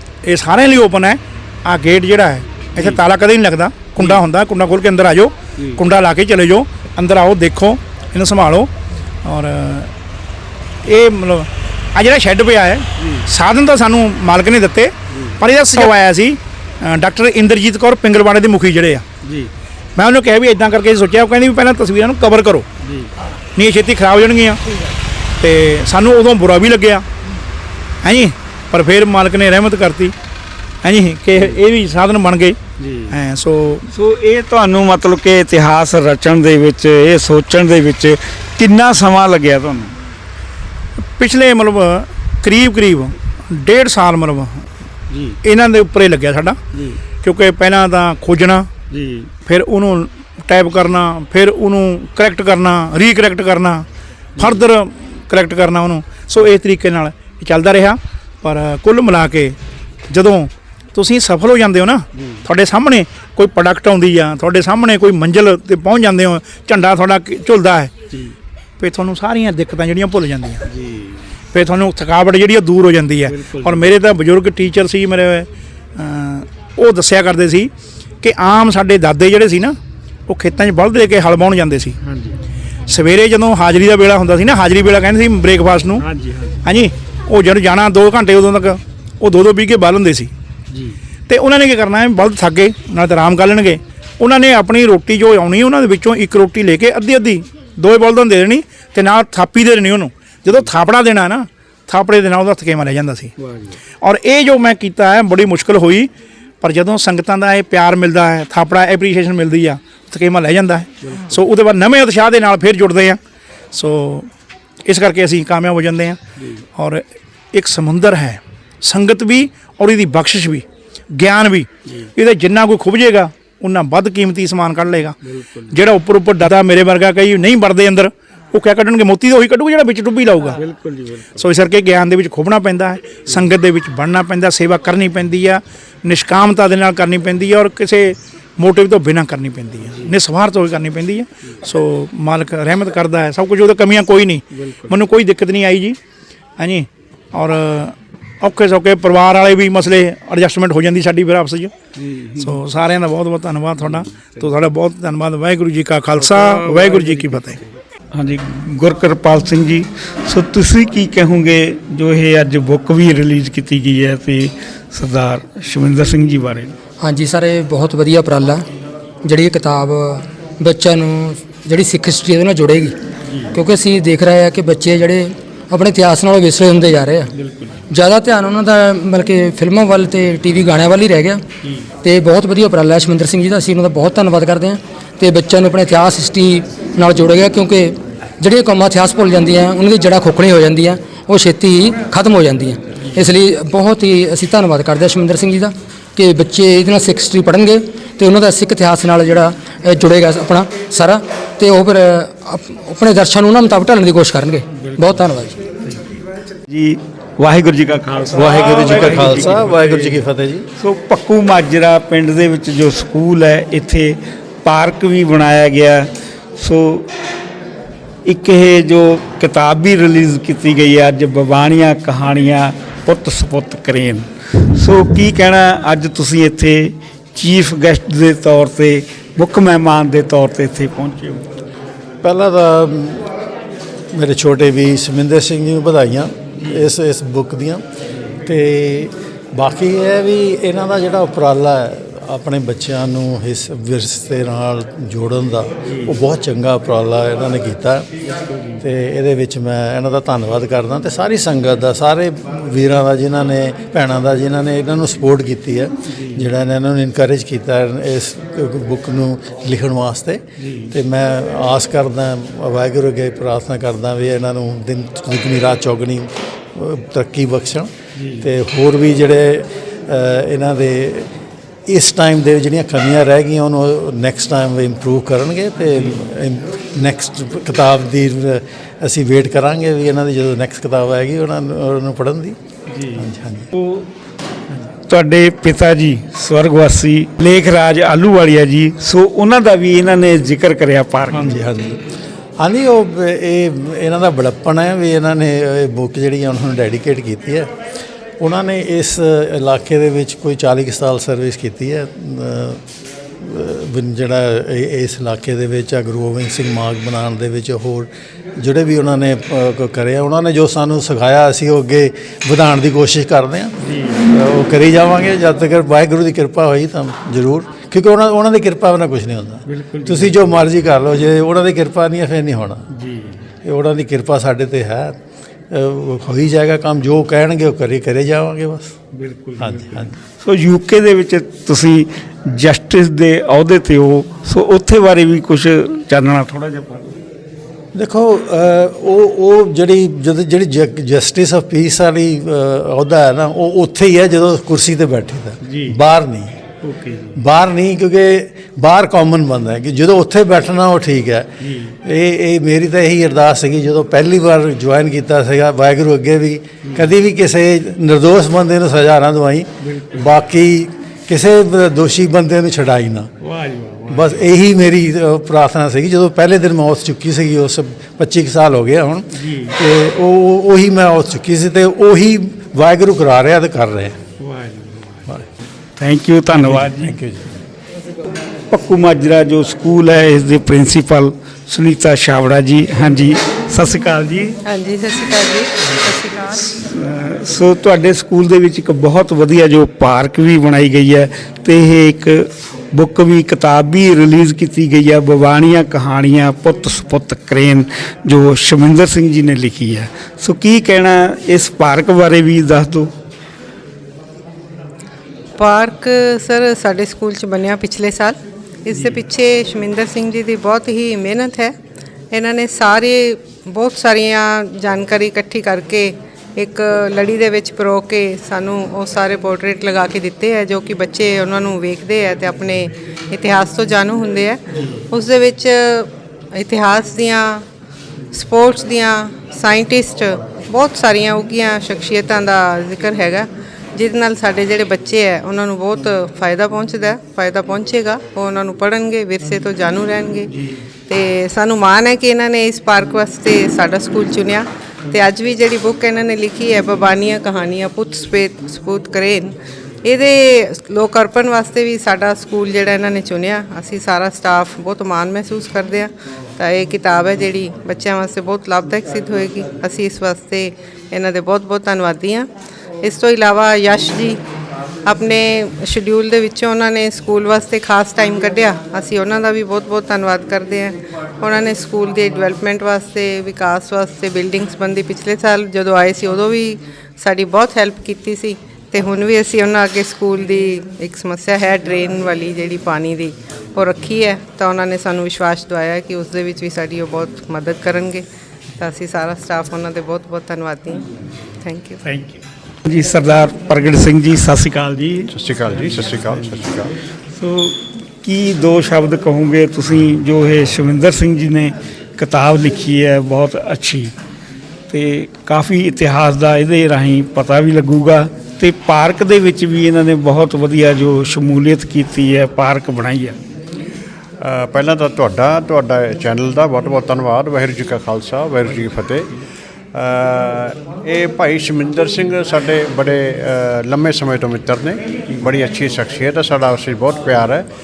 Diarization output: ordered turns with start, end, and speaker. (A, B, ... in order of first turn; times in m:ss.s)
0:00.2-0:08.7 A
0:02.7-0:03.0 B
0:05.6-0:05.8 B
0:09.2-0:09.9 A
0:10.8-0:19.0 A
0:13.0-0:13.3 B
0:15.1-0:15.4 B
0:19.2-0:19.5 B
0:20.0-0:22.7 A
0:22.8-0:23.1 B
0:23.6-0:24.6 A
0:25.4-0:27.1 A
0:28.0-0:30.1 A
0:30.8-0:32.6 A
0:31.4-0:31.6 B
0:32.8-0:33.2 B
0:33.1-0:33.8 A
0:33.9-0:40.0 B
0:41.2-0:44.7 A
0:45.1-0:45.4 B
0:45.4-0:46.6 A
0:46.7-0:47.0 B
0:47.2-0:48.7 A
0:48.9-0:49.3 B
0:49.4-0:53.8 A
0:54.4-0:59.6 A
1:00.1-1:07.9 A
1:02.2-1:02.4 B
1:08.8-1:10.6 A
1:10.7-1:11.3 B
1:11.5-1:17.7 A
1:13.3-1:13.9 B
1:18.2-1:19.8 A
1:20.3-1:22.0 A
1:22.0-1:22.4 B
1:22.9-1:26.0 A
1:26.0-1:26.6 B
1:26.6-1:30.3 A
1:30.7-1:31.0 B
1:31.3-1:43.3 A
1:43.4-1:43.8 B
1:44.0-1:46.1 A
1:46.6-1:53.2 A
1:51.0-1:51.4 B
1:53.7-1:54.3 A
1:54.9-1:56.2 A
1:56.4-1:56.7 B
1:56.8-2:05.2 A
2:05.2-2:05.8 B
2:05.7-2:10.6 A
2:10.5-2:11.5 B
2:11.4-2:26.0 A
2:19.9-2:20.1 B
2:24.5-2:25.0 B
2:26.6-2:31.7 A
2:32.0-2:32.6 B
2:32.4-2:37.6 A
2:33.8-2:34.5 B
2:36.2-2:37.6 B
2:38.1-2:46.8 B
2:47.0-2:48.7 C
2:49.2-2:53.0 C
2:53.3-2:53.6 B
2:53.5-2:57.3 C
2:57.4-2:57.8 B
2:57.9-3:01.4 C
3:02.0-3:25.6 C
3:24.8-3:25.2 B
3:26.7-3:30.2 B
3:28.3-3:30.7 D
3:30.8-3:37.1 B
3:38.2-3:51.5 B
3:52.2-3:53.4 D
3:54.1-3:57.8 D
3:56.6-3:56.9 B
3:58.4-4:08.1 D
4:05.9-4:06.2 B
4:08.5-4:08.8 B
4:08.8-4:31.3 D
4:16.1-4:16.5 B
4:20.6-4:20.9 B
4:28.2-4:28.5 B
4:31.9-4:42.6 D
4:35.9-4:36.3 B
4:42.9-4:44.1 B
4:43.1-4:43.7 D
4:45.1-4:51.6 B
4:51.3-4:52.0 D
4:52.6-4:57.7 D
4:58.4-5:02.8 D
5:03.4-5:22.8 D
5:13.8-5:14.2 B
5:19.7-5:20.5 B
5:22.9-5:23.4 B
5:23.6-5:25.2 D
5:25.7-5:28.9 D
5:29.1-5:37.2 B
5:29.6-5:30.1 D
5:37.9-5:46.6 D
5:45.6-5:46.0 B
5:46.8-5:47.4 B
5:47.4-5:51.5 D
5:51.6-5:52.0 B
5:52.0-6:03.3 D
5:59.8-6:00.3 B
6:03.4-6:04.5 B
6:04.1-6:14.2 D
6:09.4-6:09.8 B
6:14.4-6:15.3 B
6:16.0-6:17.2 B
6:16.6-6:17.6 D
6:18.7-6:24.6 B
6:24.6-6:26.5 E
6:26.5-6:43.1 B
6:45.6-6:51.8 E
6:52.3-7:07.6 E
7:08.3-7:20.5 E
7:21.1-7:42.5 E
7:43.0-7:44.4 E
7:45.1-8:08.2 E
8:08.8-8:11.1 E
8:11.6-8:12.0 E
8:12.8-8:15.3 B
8:15.3-8:16.9 F
8:17.4-8:24.1 B
8:24.9-8:33.4 B
8:34.4-8:39.3 F
8:39.9-8:47.7 F